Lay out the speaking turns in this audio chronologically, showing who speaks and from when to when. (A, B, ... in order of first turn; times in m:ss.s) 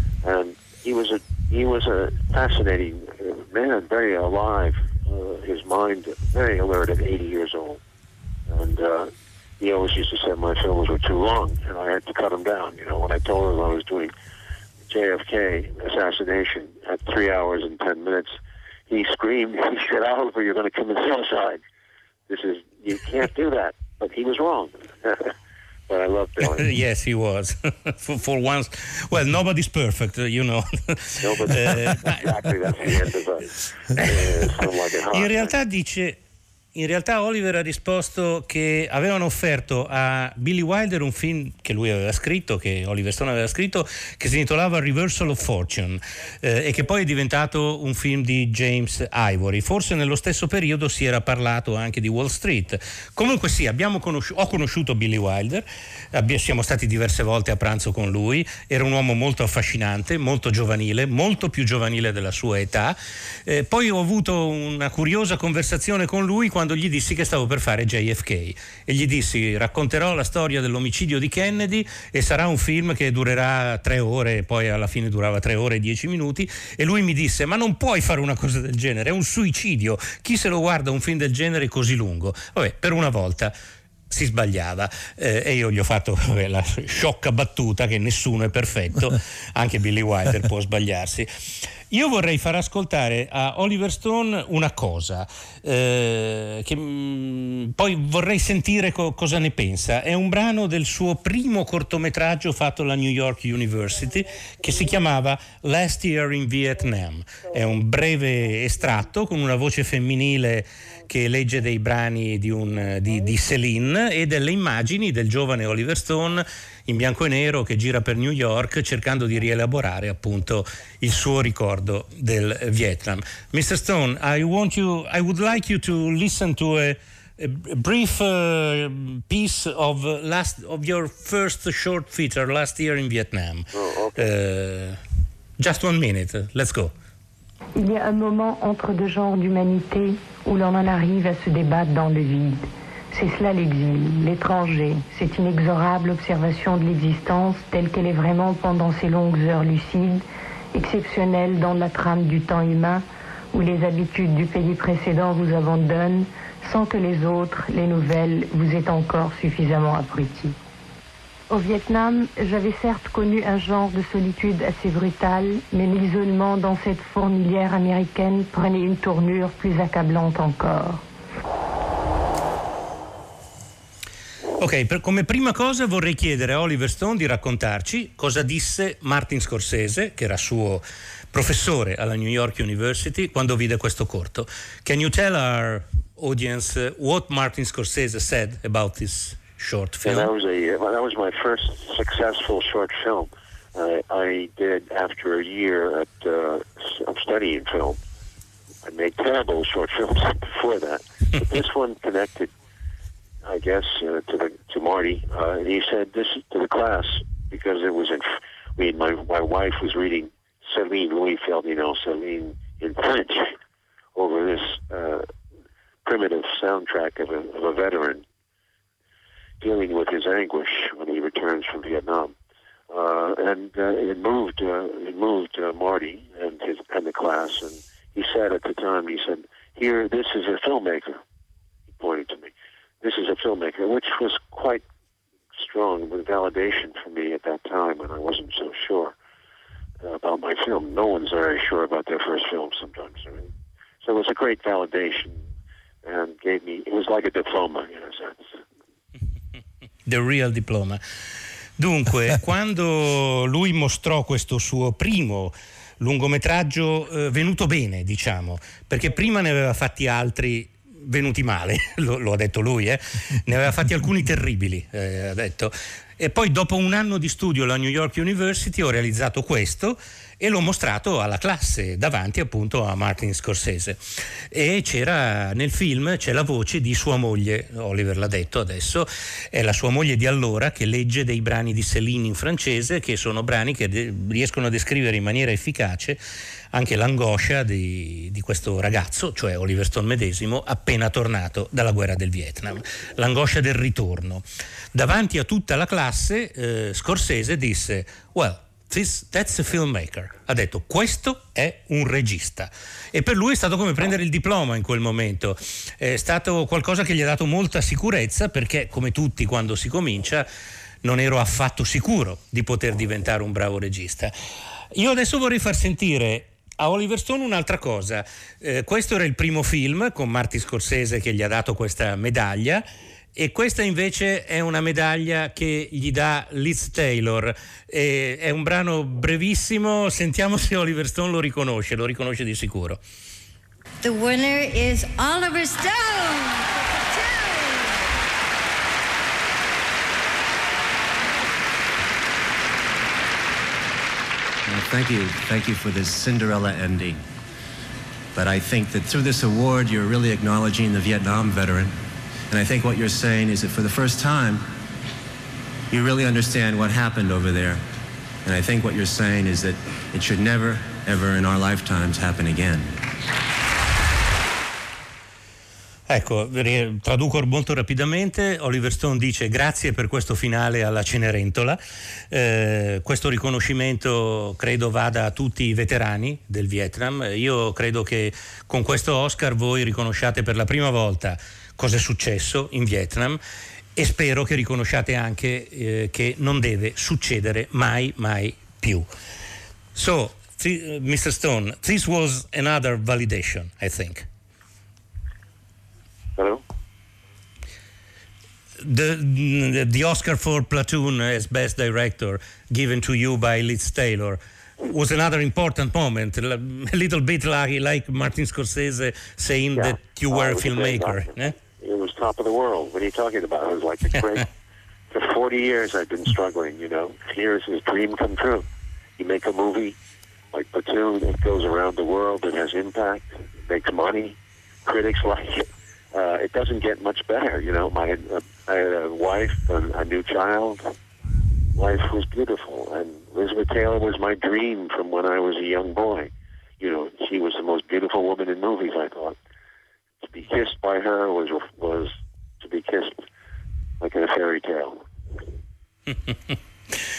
0:00.2-0:07.8 A
0:08.5-0:14.1 A
0:14.9-0:18.4 A
0:18.9-0:21.6 A
0:22.3-0:25.3 A
0:25.9-0:26.8 A
0:26.4-0:32.9 B
0:31.2-0:35.5 A
0:34.0-0:36.2 B
0:36.7-1:23.5 B
1:24.1-1:31.3 B
1:31.9-2:15.0 B
2:13.7-2:14.2 A
2:15.6-2:16.9 B
2:17.8-2:40.6 C
2:41.5-2:51.0 C
2:54.6-3:10.3 B
3:10.0-3:18.0 A
3:18.8-3:22.5 A
3:23.4-3:33.5 A
3:34.1-3:35.2 A
3:36.0-3:38.2 A
3:39.6-3:42.3 A
3:42.9-3:51.2 A
3:52.0-3:52.5 A
3:53.0-3:54.8 A
3:55.6-3:59.1 A
4:00.0-4:03.5 A
4:04.0-4:05.4 A
4:06.0-4:08.5 A
4:10.0-4:11.0 B
4:11.8-4:34.0 B
4:34.5-4:46.2 B
4:46.7-5:10.5 B
5:11.0-5:14.3 B
5:14.9-5:22.8 B
5:23.4-5:33.0 B
5:34.0-5:38.1 D
5:44.6-5:47.2 E
5:48.3-5:52.0 E
5:52.5-5:54.7 E
5:55.9-5:57.8 E
5:58.4-6:03.0 E
6:06.1-6:11.8 B
6:12.3-6:23.4 B
6:24.0-6:29.1 B
6:29.9-6:34.3 B
6:36.4-6:36.6 A
6:38.8-6:51.5 B
6:49.7-6:54.5 A
6:55.1-6:58.6 A
6:59.2-7:00.0 A
7:00.5-7:10.9 A
7:11.7-7:19.4 A
7:20.2-7:23.1 A
7:24.0-7:25.0 A
7:26.1-7:27.0 B